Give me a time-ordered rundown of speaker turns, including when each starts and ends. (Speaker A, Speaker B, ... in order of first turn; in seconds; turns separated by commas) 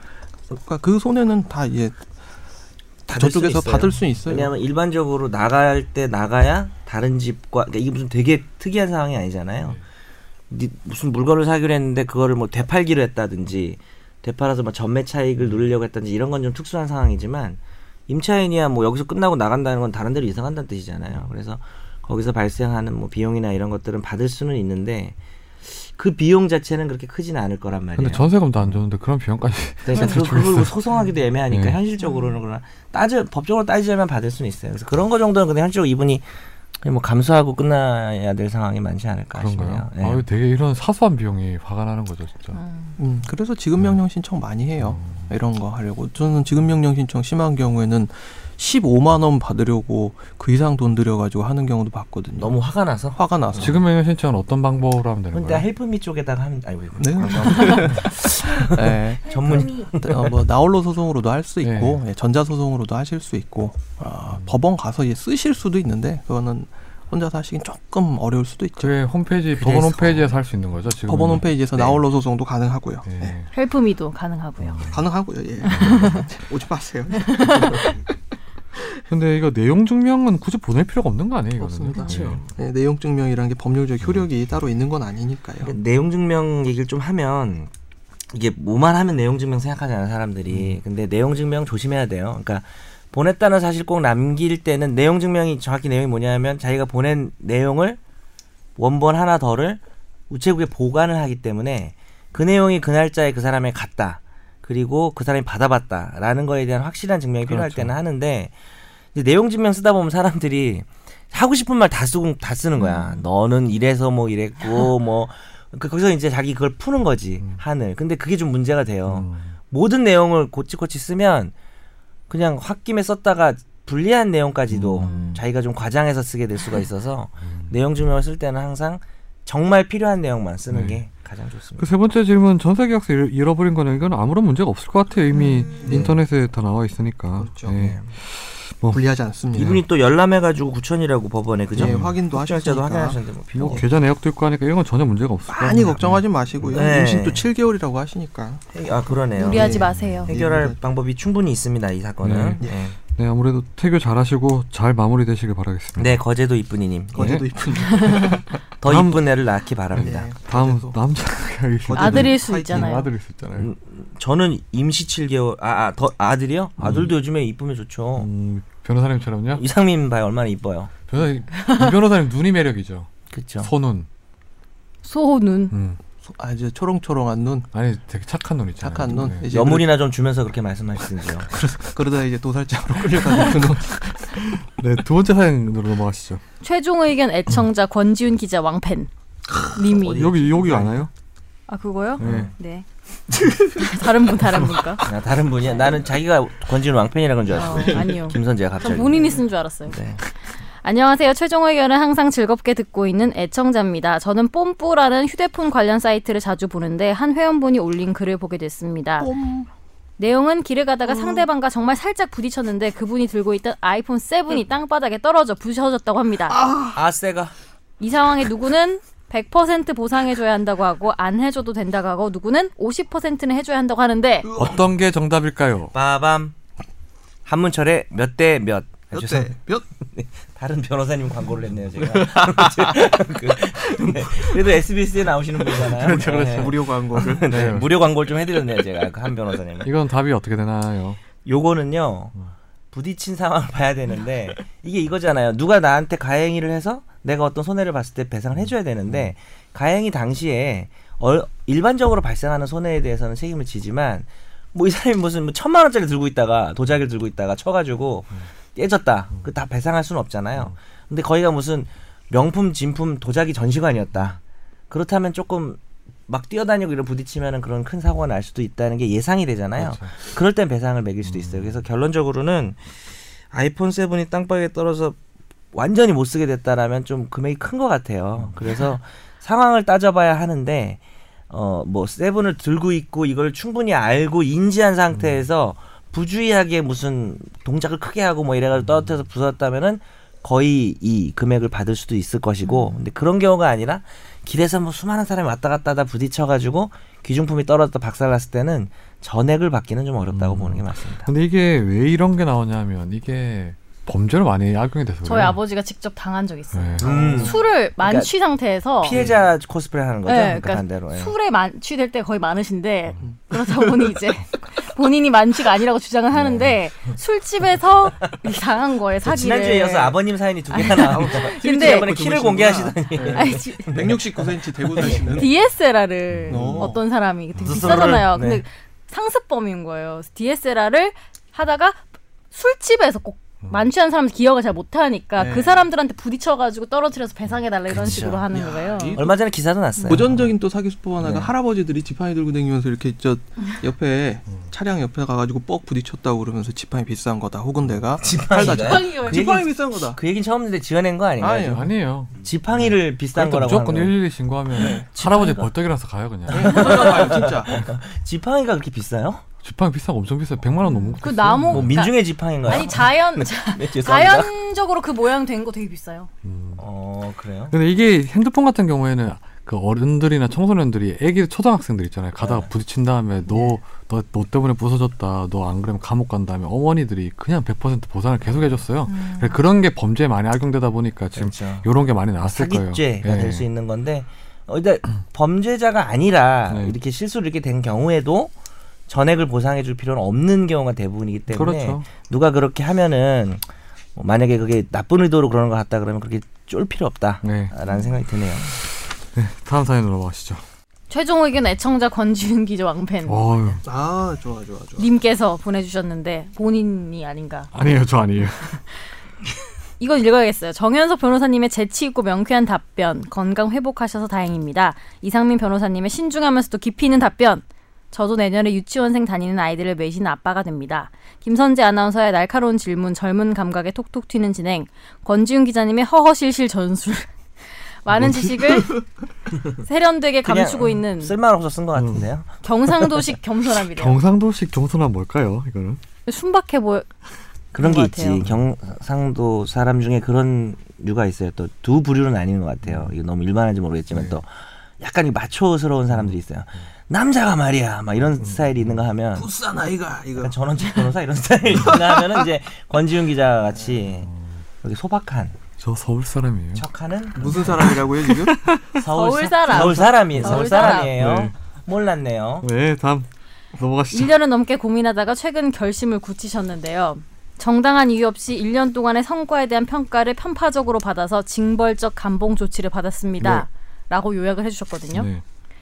Speaker A: 0.5-2.0, Speaker A: 3.1-4.5, Speaker B: 3.1-9.8, Speaker B: 10.5-28.7, Speaker C: 27.9-30.7, Speaker B: 29.8-36.3, Speaker C: 31.5-31.8, Speaker D: 32.0-32.4, Speaker B: 36.8-40.2, Speaker C: 39.4-42.6, Speaker D: 42.5-43.0, Speaker A: 43.0-52.5, Speaker C: 44.8-45.3, Speaker B: 52.4-53.8, Speaker A: 53.1-53.8, Speaker C: 53.5-55.7, Speaker B: 55.3-60.3, Speaker A: 57.0-68.9, Speaker D: 59.2-59.9, Speaker C: 61.6-62.0, Speaker C: 68.8-71.8, Speaker A: 69.6-70.3, Speaker A: 71.1-73.3, Speaker C: 73.0-73.5, Speaker D: 73.5-74.8, Speaker C: 74.6-75.0, Speaker A: 74.9-78.0, Speaker D: 75.6-76.2, Speaker C: 75.7-76.1, Speaker D: 77.2-78.0, Speaker A: 78.8-79.0, Speaker C: 79.1-82.5, Speaker A: 81.6-85.7, Speaker B: 82.0-82.4, Speaker B: 85.6-87.7, Speaker B: 88.3-98.0, Speaker C: 90.5-90.8, Speaker B: 98.8-108.5, Speaker C: 107.5-107.9, Speaker B: 109.1-121.5, Speaker D: 112.8-113.2, Speaker C: 119.0-119.5, Speaker B: 122.3-131.9, Speaker C: 124.7-125.4, Speaker D: 125.0-125.4, Speaker C: 127.4-127.7, Speaker C: 130.7-131.0, Speaker C: 131.8-139.0, Speaker D: 135.3-135.7, Speaker A: 135.8-136.2, Speaker A: 137.4-137.8, Speaker B: 137.7-138.1, Speaker A: 138.9-139.8, Speaker B: 139.5-143.9, Speaker C: 141.7-142.1, Speaker A: 141.7-143.2, Speaker C: 143.5-146.8, Speaker A: 145.5-148.6, Speaker B: 146.7-147.4, Speaker B: 148.7-152.9, Speaker D: 149.4-150.3, Speaker A: 149.4-150.8, Speaker C: 149.9-150.3, Speaker C: 152.2-156.2, Speaker B: 156.0-157.3, Speaker A: 157.1-158.6, Speaker C: 157.2-157.4, Speaker B: 158.8-160.3, Speaker C: 158.8-159.3, Speaker C: 159.9-163.7, Speaker A: 159.9-161.0, Speaker A: 161.8-162.9, Speaker D: 161.9-163.1, Speaker B: 163.6-168.3, Speaker C: 166.8-167.1, Speaker C: 168.2-169.6, Speaker B: 169.6-170.9, Speaker C: 171.1-173.1, Speaker D: 171.6-171.9, Speaker B: 173.3-173.7, Speaker C: 173.6-174.1, Speaker D: 175.0-175.7, Speaker C: 175.7-176.0, Speaker A: 176.2-177.7, Speaker C: 177.7-179.5, Speaker A: 178.8-179.9, Speaker B: 179.5-181.5, Speaker A: 181.5-184.6, Speaker C: 184.7-186.4, Speaker D: 186.6-189.1, Speaker D: 189.7-190.3, Speaker B: 189.8-191.1, Speaker C: 190.1-191.1, Speaker D: 191.7-192.8, Speaker C: 192.2-192.5, Speaker B: 192.2-192.5, Speaker A: 193.3-193.9, Speaker D: 193.7-195.0, Speaker B: 195.0-200.2, Speaker D: 197.5-200.0, Speaker A: 197.7-198.1, Speaker D: 200.8-209.3, Speaker A: 209.2-209.7, Speaker D: 210.2-216.6, Speaker A: 211.1-211.4, Speaker A: 216.5-217.0, Speaker B: 216.9-217.5, Speaker D: 218.0-224.5, Speaker A: 224.4-224.8, Speaker C: 224.6-225.9, Speaker B: 225.9-226.5, Speaker B: 227.4-229.5, Speaker A: 229.1-229.8, Speaker B: 230.1-239.9, Speaker A: 232.0-234.6, Speaker A: 235.7-237.7, Speaker C: 235.8-238.0, Speaker C: 239.8-241.2, Speaker B: 241.4-242.3, Speaker B: 242.9-272.9, Speaker C: 248.6-249.3, Speaker C: 269.8-270.1, Speaker C: 271.2-271.8, Speaker B: 273.5-275.2, Speaker B: 275.7-301.3, Speaker C: 285.1-285.4, Speaker D: 292.6-293.0, Speaker C: 300.3-305.6, Speaker D: 305.2-309.2, Speaker C: 306.7-307.1, Speaker A: 307.0-307.6, Speaker B: 307.0-308.3, Speaker B: 309.0-311.3, Speaker D: 310.2-320.2, Speaker A: 313.2-313.9, Speaker B: 319.2-325.4, Speaker D: 320.7-322.1, Speaker A: 320.8-325.5, Speaker D: 323.3-323.9, Speaker D: 325.0-339.2, Speaker C: 326.3-326.8, Speaker A: 326.5-327.0, Speaker B: 327.6-328.6, Speaker A: 335.4-335.9, Speaker B: 337.9-338.4, Speaker A: 338.5-339.3, Speaker B: 339.1-340.5, Speaker A: 340.0-350.2, Speaker B: 341.2-341.5, Speaker B: 348.2-351.8, Speaker D: 348.6-349.5, Speaker A: 351.4-351.9, Speaker C: 351.7-357.1, Speaker B: 352.4-354.1, Speaker A: 354.8-355.1, Speaker B: 354.8-355.7, Speaker A: 356.5-357.8, Speaker B: 356.5-359.4, Speaker C: 359.6-362.0, Speaker D: 360.8-366.3, Speaker B: 361.7-364.5, Speaker C: 366.4-366.8, Speaker B: 366.8-367.7, Speaker C: 367.7-383.6, Speaker B: 372.4-372.7, Speaker D: 379.1-379.6, Speaker B: 381.3-381.9, Speaker B: 382.4-388.5, Speaker C: 386.7-386.9, Speaker B: 389.1-393.6, Speaker C: 391.5-392.1, Speaker B: 394.1-398.8, Speaker C: 397.4-397.7, Speaker C: 399.3-400.6, Speaker D: 401.1-403.4, Speaker C: 403.2-403.8, Speaker A: 403.8-405.1, Speaker D: 405.0-407.7, Speaker C: 407.7-408.8, Speaker D: 410.0-427.3, Speaker D: 428.0-429.0, Speaker C: 428.1-428.9, Speaker D: 429.8-431.3, Speaker B: 430.4-432.5, Speaker C: 431.9-432.3, Speaker D: 432.6-434.2, Speaker C: 433.9-436.0, Speaker D: 436.3-437.1, Speaker B: 437.7-449.5, Speaker D: 437.8-438.4, Speaker C: 442.8-443.1, Speaker C: 444.1-444.4, Speaker C: 446.1-446.4, Speaker C: 448.4-449.0, Speaker A: 449.4-450.5, Speaker B: 450.4-454.3, Speaker A: 451.7-452.5, Speaker C: 454.2-454.6, Speaker B: 454.8-455.6, Speaker C: 455.8-456.8, Speaker B: 456.7-457.9, Speaker A: 457.4-458.7, Speaker C: 457.4-459.0, Speaker B: 458.9-462.6, Speaker D: 459.0-461.1, Speaker C: 460.3-461.5, Speaker C: 462.6-464.3, Speaker D: 464.1-475.3, Speaker C: 473.4-473.6, Speaker C: 475.1-475.4